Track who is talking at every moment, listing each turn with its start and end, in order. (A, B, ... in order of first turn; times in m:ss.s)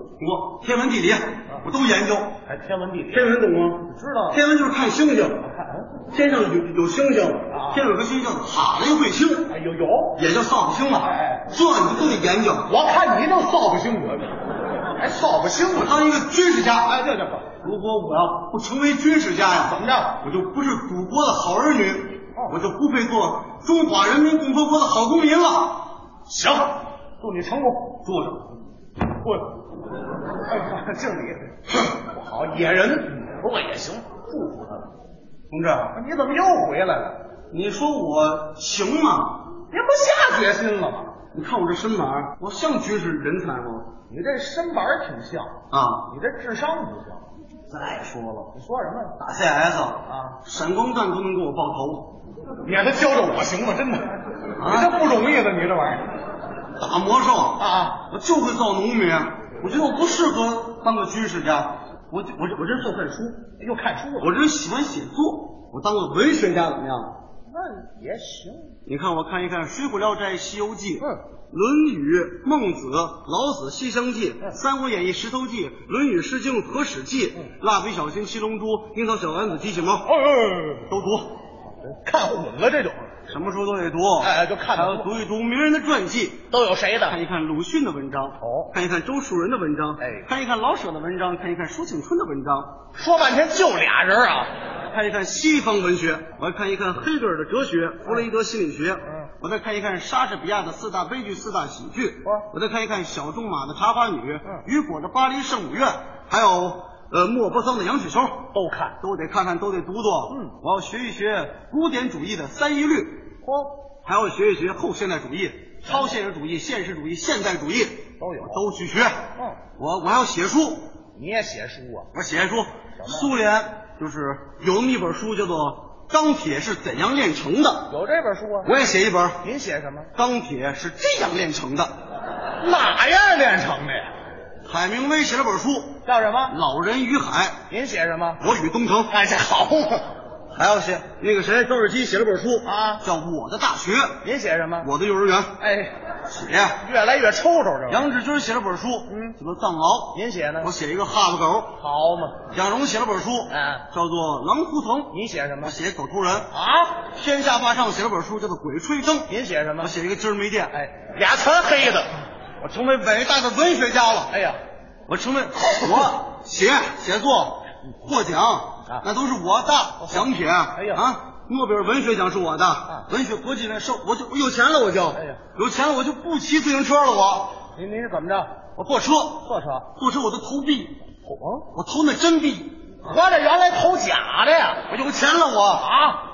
0:00.2-0:02.4 A
0:02.4-0:04.4 B
0:03.1-0:05.5 A
0:05.4-0:06.0 B
0:06.1-0:09.5 A
0:07.5-0:07.9 B
0:09.5-0:10.2 B
0:10.2-0:12.7 A
0:11.0-0:11.5 B
0:12.7-0:16.0 B
0:15.7-0:17.0 A
0:16.9-0:17.5 B
0:17.6-0:25.9 A
0:19.6-0:20.2 B
0:26.3-0:28.0 B
0:28.0-0:28.5 A
0:29.2-0:29.6 B
0:30.5-0:34.9 B
0:35.5-0:36.0 A
0:35.9-0:37.2 B
0:37.5-0:39.5 A
0:39.7-0:41.2 B
0:41.3-0:43.9 A
0:44.1-0:47.3 B
0:45.7-0:46.1 A
0:47.7-0:48.5 A
0:48.5-0:49.2 B
0:49.2-0:52.2 A
0:50.1-0:50.4 B
0:52.6-0:56.1 B
0:54.6-0:54.9 A
0:56.8-1:03.5 A
0:57.6-0:58.0 B
1:03.6-1:04.3 B
1:04.2-1:07.2 A
1:07.5-1:08.8 B
1:08.9-1:20.1 A
1:20.1-1:20.9 B
1:20.9-1:21.3 A
1:21.8-1:23.2 B
1:23.3-1:26.4 A
1:24.2-1:25.1 B
1:26.5-1:27.2 B
1:27.0-1:32.8 A
1:28.4-1:28.7 B
1:30.0-1:30.3 B
1:32.9-1:34.5 B
1:34.9-1:48.5 A
1:48.5-1:49.0 B
1:49.0-1:53.3 A
1:50.3-1:50.6 B
1:53.4-1:53.8 B
1:54.0-1:59.2 A
1:55.9-1:56.2 B
1:58.2-1:58.6 B
1:59.3-1:59.6 B
1:59.8-2:00.9 A
2:01.1-2:02.1 B
2:02.1-2:07.9 A
2:03.0-2:03.3 B
2:07.9-2:08.7 B
2:08.6-2:09.4 A
2:09.4-2:10.1 B
2:10.2-2:11.9 A
2:12.6-2:14.2 B
2:14.6-2:17.6 A
2:16.0-2:16.6 B
2:17.7-2:18.4 B
2:18.4-2:19.1 A
2:19.1-2:20.1 B
2:20.5-2:24.2 A
2:22.6-2:23.0 B
2:24.2-2:24.9 B
2:24.8-2:25.6 A
2:25.6-2:26.0 B
2:26.2-2:26.8 A
2:26.8-2:28.1 B
2:27.9-2:31.8 A
2:29.1-2:29.4 B
2:30.1-2:30.7 B
2:31.8-2:32.5 B
2:32.5-2:36.5 A
2:33.5-2:33.9 B
2:35.1-2:35.8 B
2:36.5-2:37.0 B
2:37.0-2:39.3 A
2:39.3-2:39.9 B
2:39.8-2:40.7 A
2:40.7-2:42.2 B
2:42.6-2:44.3 A
2:44.3-2:44.6 B
2:45.1-2:57.6 A
2:50.7-2:51.0 B
2:55.1-2:55.4 B
2:57.7-2:58.5 B
2:58.8-3:01.0 A
2:59.4-2:59.9 B
3:01.2-3:01.7 B
3:01.7-3:02.8 A
3:03.0-3:04.9 B
3:04.9-3:05.9 A
3:05.8-3:06.2 B